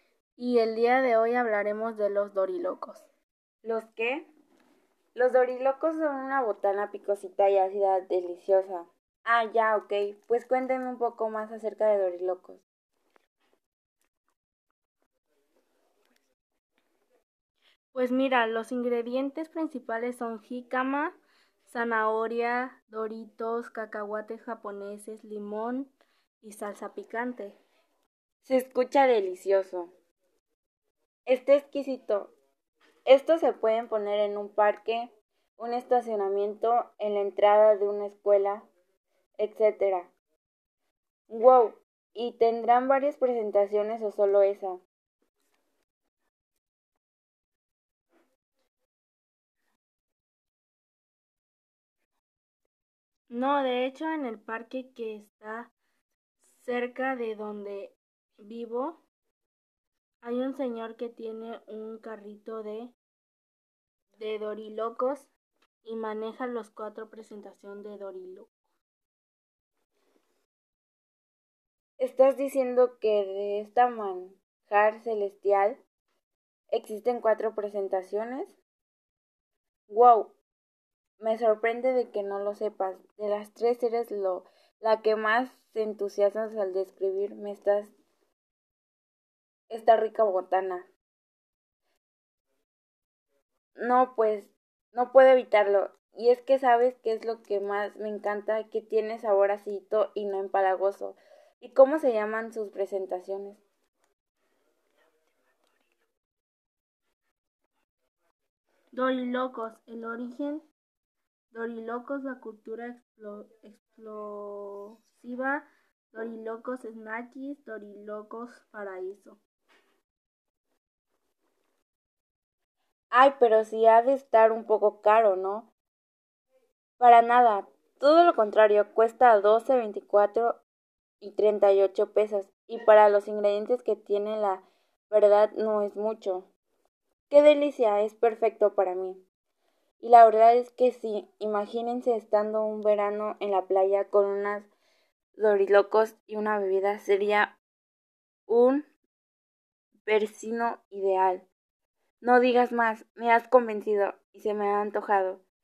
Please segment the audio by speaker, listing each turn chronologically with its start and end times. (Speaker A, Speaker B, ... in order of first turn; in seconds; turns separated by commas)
Speaker A: 0.4-3.1, Speaker B: 3.6-4.3, Speaker B: 5.1-12.6, Speaker A: 17.9-27.6, Speaker B: 28.4-29.9, Speaker B: 31.3-32.3, Speaker B: 33.0-38.7, Speaker B: 39.4-40.1, Speaker B: 41.3-44.8, Speaker A: 53.3-55.7, Speaker A: 56.4-59.0, Speaker A: 60.2-62.9, Speaker A: 64.2-65.3, Speaker A: 65.8-68.5, Speaker B: 72.0-75.8, Speaker B: 76.7-78.6, Speaker B: 79.9-80.4, Speaker B: 81.2-87.9, Speaker B: 89.7-90.9, Speaker B: 93.8-103.6, Speaker A: 108.9-110.7, Speaker A: 111.5-119.4, Speaker B: 123.1-125.7, Speaker B: 127.0-130.6, Speaker B: 131.2-136.5, Speaker B: 137.3-139.2, Speaker B: 140.0-144.7, Speaker B: 145.3-147.6, Speaker B: 148.5-148.9, Speaker B: 150.0-151.5, Speaker B: 152.2-155.4